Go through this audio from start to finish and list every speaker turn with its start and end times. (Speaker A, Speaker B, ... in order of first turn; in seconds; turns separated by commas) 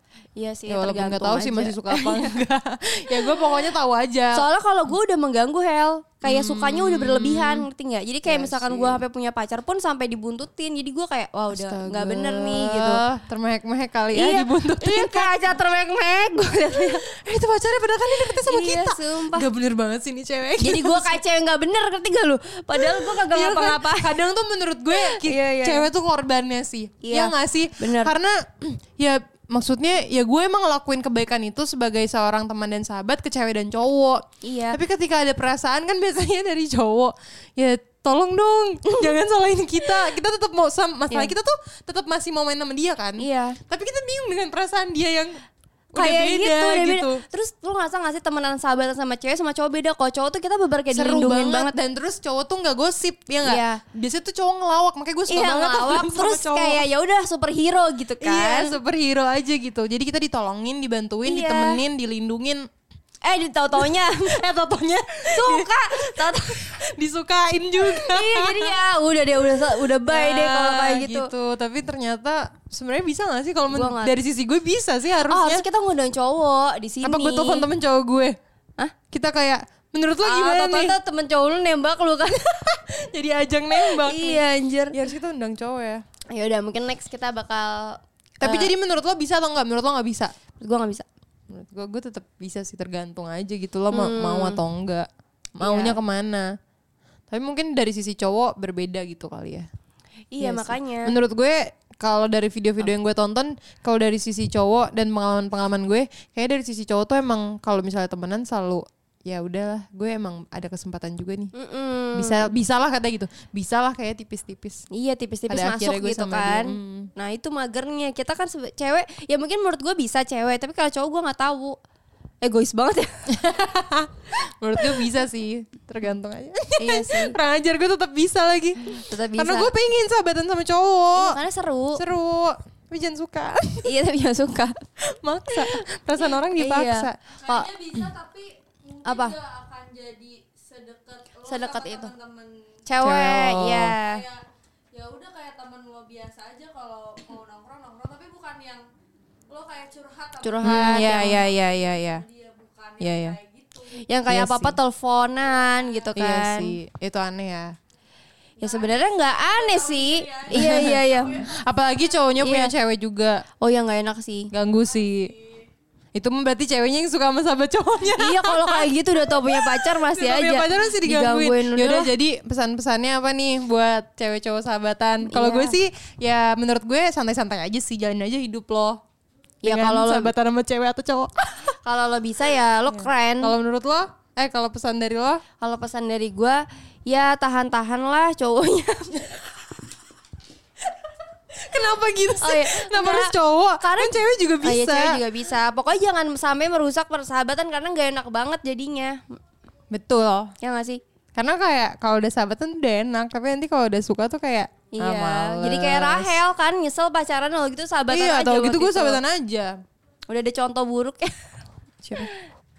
Speaker A: 0.3-2.4, Speaker B: 0.7-4.5, Speaker A: 3.1-3.4, Speaker A: 4.3-13.0, Speaker B: 6.2-7.7, Speaker B: 8.2-9.0, Speaker B: 11.5-15.3, Speaker A: 14.1-17.0, Speaker B: 17.1-21.2, Speaker A: 18.1-19.5, Speaker A: 20.6-24.1, Speaker B: 22.7-45.4, Speaker A: 24.9-25.9, Speaker A: 27.0-28.1, Speaker A: 34.4-34.8, Speaker A: 43.2-43.6, Speaker B: 45.9-47.2, Speaker A: 45.9-51.7, Speaker B: 50.9-56.8, Speaker A: 53.4-53.8, Speaker A: 55.3-58.8, Speaker B: 58.2-62.6, Speaker A: 61.2-61.8, Speaker A: 63.2-64.4, Speaker B: 63.8-68.8, Speaker A: 65.3-66.7, Speaker A: 67.8-71.3, Speaker B: 69.8-75.7, Speaker A: 73.7-74.1, Speaker A: 75.3-77.7, Speaker B: 77.0-78.4, Speaker B: 79.1-81.0, Speaker A: 80.2-82.5, Speaker B: 82.5-86.0, Speaker A: 83.8-84.9, Speaker A: 86.3-88.7, Speaker B: 88.4-90.3, Speaker A: 90.6-91.0, Speaker B: 91.5-96.5, Speaker A: 93.9-94.6, Speaker A: 95.6-96.0, Speaker B: 97.3-99.7, Speaker A: 100.3-101.1, Speaker B: 100.4-111.5, Speaker A: 111.5-112.5, Speaker B: 112.1-114.8, Speaker A: 114.9-121.8, Speaker B: 115.5-117.1, Speaker A: 122.4-123.3, Speaker B: 123.3-131.4, Speaker A: 126.8-127.3, Speaker A: 128.9-129.7, Speaker A: 131.1-132.0, Speaker B: 131.9-133.9, Speaker A: 133.8-134.8, Speaker B: 135.0-137.3, Speaker A: 135.5-135.8, Speaker A: 136.6-137.9, Speaker C: 137.4-142.8, Speaker A: 139.0-139.4, Speaker A: 141.4-142.1, Speaker A: 142.8-144.2, Speaker B: 143.0-144.0, Speaker C: 144.0-148.9, Speaker C: 149.5-151.4, Speaker A: 150.4-151.4, Speaker B: 150.6-152.2, Speaker C: 152.1-153.9, Speaker B: 153.0-153.4, Speaker A: 153.8-156.8, Speaker B: 154.3-154.8, Speaker B: 156.2-157.7, Speaker A: 158.6-161.4, Speaker C: 158.6-160.5, Speaker B: 160.5-163.4, Speaker A: 162.4-162.7, Speaker A: 163.6-164.5, Speaker B: 164.5-165.3, Speaker B: 166.1-179.0, Speaker A: 168.2-172.1, Speaker A: 175.2-175.8, Speaker A: 179.6-180.3, Speaker B: 179.6-181.7, Speaker A: 181.7-183.5, Speaker B: 182.9-185.4, Speaker A: 185.6-189.3, Speaker B: 191.6-195.2, Speaker A: 192.4-199.2, Speaker B: 199.9-200.5, Speaker A: 200.6-201.0, Speaker B: 201.3-206.4, Speaker A: 204.9-209.2, Speaker B: 208.1-209.7, Speaker A: 210.3-211.5, Speaker B: 212.0-212.3